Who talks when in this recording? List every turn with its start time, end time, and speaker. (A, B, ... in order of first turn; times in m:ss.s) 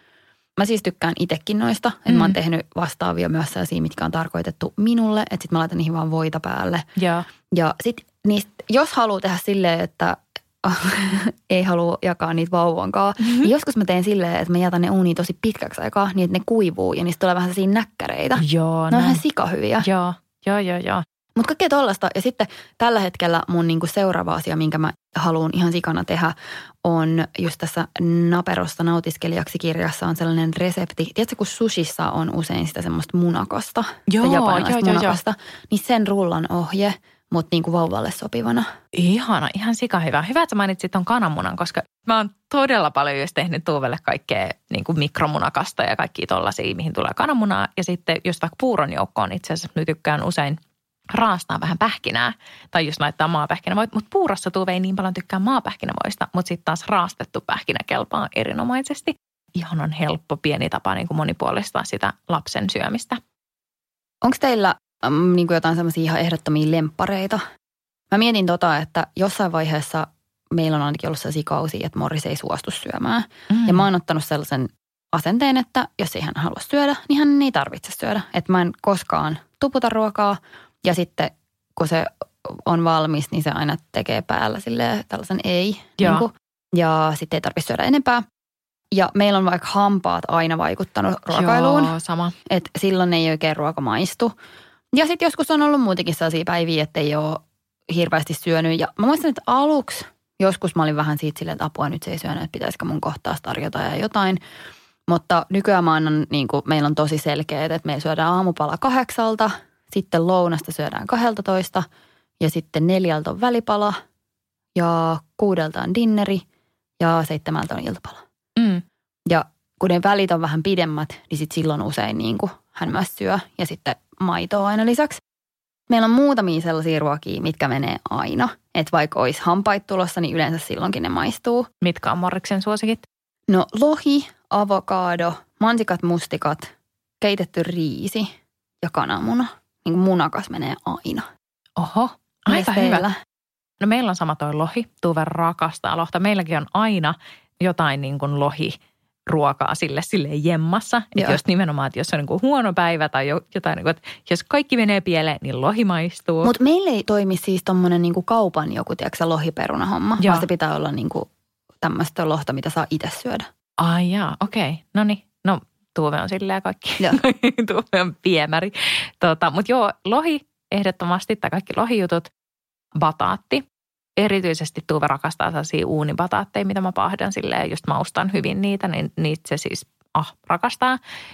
0:00.6-0:06.9 A
0:02.1-0:02.4 B
0:07.0-0:07.3 B
0:07.5-0:19.9 A
0:13.2-0:13.5 B
0:18.4-0:19.2 B
0:19.8-0:21.0 B
0:21.4-0:38.7 A
0:34.1-0:35.2 B
0:38.9-0:50.6 B
0:51.1-1:03.2 B
1:04.2-1:07.4 A
1:08.1-1:28.2 A
1:13.5-1:13.9 B
1:26.0-1:26.3 B
1:28.9-1:31.9 A
1:31.3-1:32.4 B
1:32.5-1:34.3 A
1:34.9-1:44.4 A
1:45.1-1:51.9 A
1:52.4-1:54.0 A
1:54.8-1:56.4 A
1:57.0-1:58.2 A
1:58.6-1:58.8 B
1:59.3-2:05.2 A
2:05.9-2:11.7 A
2:11.8-2:13.1 B
2:13.5-2:18.3 A
2:18.8-2:21.3 A
2:21.8-2:23.1 B
2:22.5-2:23.2 A
2:23.8-2:28.8 B
2:29.3-2:36.5 B
2:36.4-2:41.3 A
2:40.2-2:40.5 B
2:41.8-2:43.5 A
2:43.8-2:52.3 B
2:53.0-2:53.6 B
2:54.2-3:01.0 B